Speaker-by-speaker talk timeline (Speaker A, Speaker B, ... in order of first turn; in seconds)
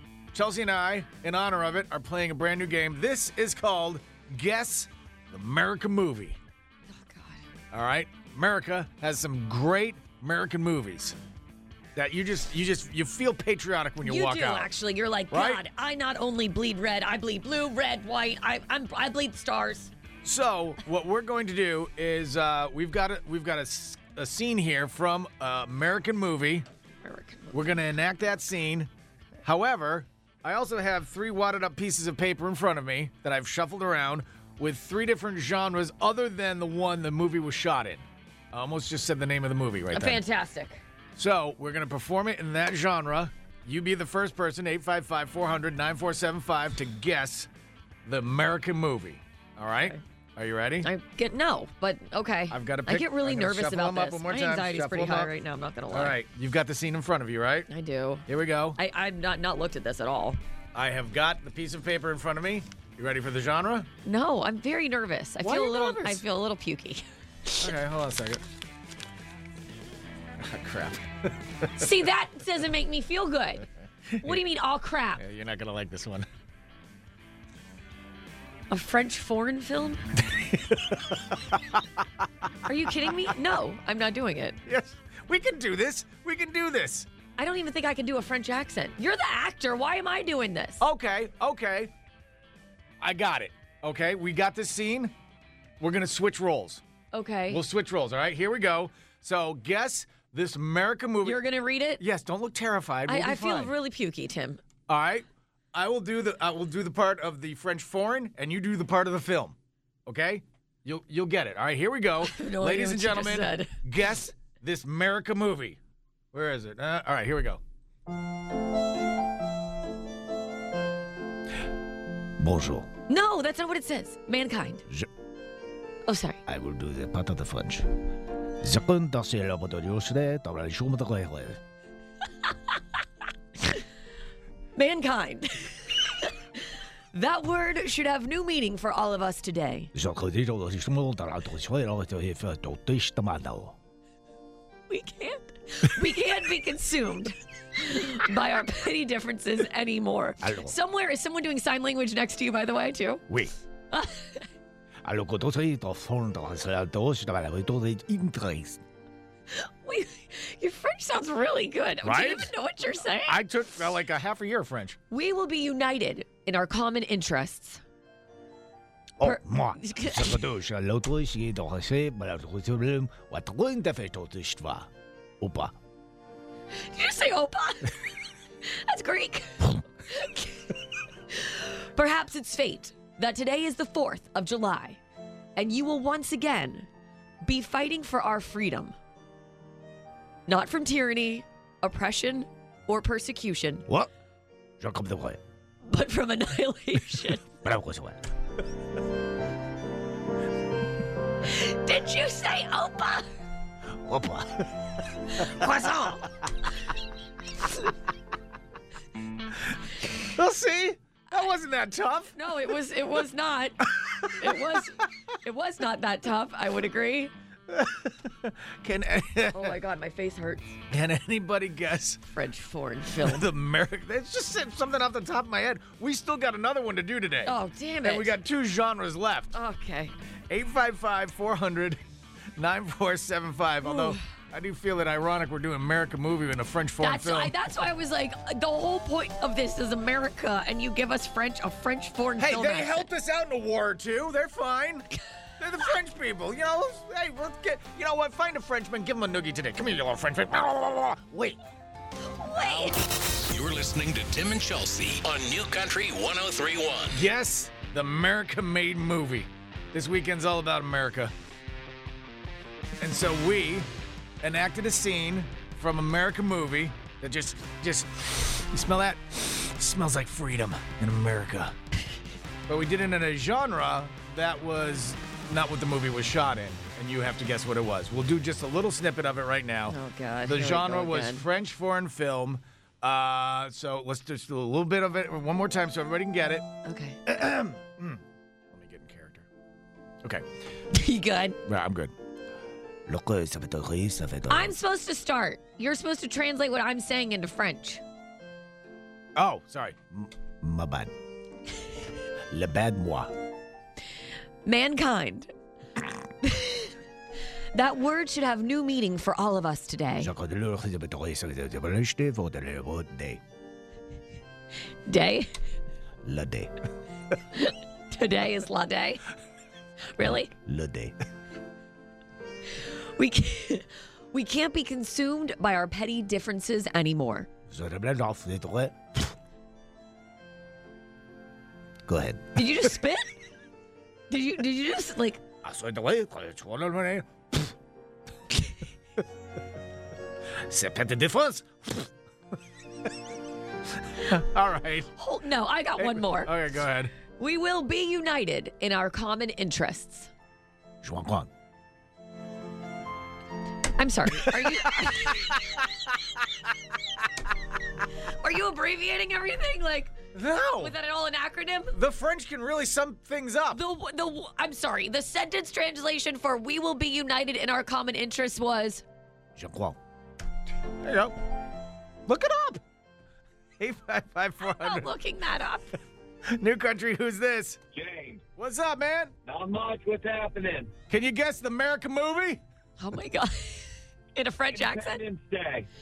Speaker A: 0.3-6.4, 7.7-11.2, 11.9-14.7, 15.3-15.6, 20.2-26.7, 27.5-28.9, 29.4-40.2, 41.1-47.5, 48.0-50.9, 52.5-55.3, 55.9-57.7, 58.3-58.8, 60.7-63.9, 65.4-66.2, 67.6-68.4, 70.4-71.7, 74.1-74.4, 75.2-76.2, 80.2-81.8, 84.7-87.1, 90.8-91.9, 93.0-95.1, 95.8-96.8, 97.5-101.4, 102.0-103.7, 104.9-109.5, 110.1-115.8, 116.3-117.6, 162.0-162.5, 163.2-165.0, 210.1-212.3, 214.0-214.6, 217.7-219.8, 220.9-222.2, 223.2-229.5, 230.5-232.0, 232.6-237.5, 242.4-245.1, 245.6-251.6, 252.6-253.0, 257.1-261.3, 263.0-263.9, 264.4-271.7, 272.7-286.6, 287.2-289.4, 291.6-292.1, 299.4-300.0, 344.2-345.1, 346.0-347.1, 360.3-360.9, 361.9-363.8, 371.0-371.3, 372.3-372.8, 373.8-375.1, 376.5-377.8, 378.6-379.3, 381.1-382.6
Speaker B: 6.9-7.4, 14.0-19.9, 27.0-27.8, 39.9-40.8, 50.8-56.2, 57.7-60.4, 64.0-67.7, 71.8-73.7, 74.2-75.2, 78.7-80.0, 82.7-84.6, 87.4-90.8, 97.1-97.6, 101.2-102.0, 103.1-104.6, 112.2-113.8, 123.1-124.8, 126.1-126.4, 134.8-136.3, 137.1-139.9, 144.9-153.2, 153.9-154.5, 159.5-163.4, 165.1-167.8, 169.2-170.4, 176.8-178.0, 178.6-180.7, 181.3-185.0, 185.6-186.9, 187.4-188.9, 190.5-193.9, 195.8-197.5, 201.4-203.3, 205.4-206.2, 212.3-213.8, 214.4-217.3, 219.5-220.8, 222.3-223.5, 227.4-228.3, 229.5-230.1, 233.8-234.2, 237.0-243.1, 252.3-253.0, 279.9-281.4, 286.8-287.2, 290.9-291.6, 294.5-298.0, 304.6-305.5, 306.4-306.9, 307.7-310.3, 315.1-315.5, 317.5-319.2, 320.0-320.5, 322.8-327.5, 332.5-333.4, 334.3-335.4, 345.2-346.5, 347.2-350.3, 353.9-355.6, 358.3-360.2, 360.8-361.9, 363.7-369.0, 374.6-376.0, 383.0-385.2
Speaker C: 122.4-122.9, 126.5-127.9, 128.6-131.6, 139.9-143.8, 150.4-150.8, 153.3-153.5, 155.0-158.8, 169.2-174.9, 175.4-175.7, 194.8-195.4, 197.6-198.2, 203.9-204.7, 293.1-294.7, 300.6-301.1, 302.5-303.3, 310.2-313.4, 316.2-316.7, 320.6-321.1, 327.7-329.3, 332.1-332.8, 335.6-337.7, 340.7-341.9, 351.0-351.5, 369.6-370.0
Speaker D: 253.5-257.2
Speaker E: 377.9-378.5, 379.4-380.9, 384.7-385.9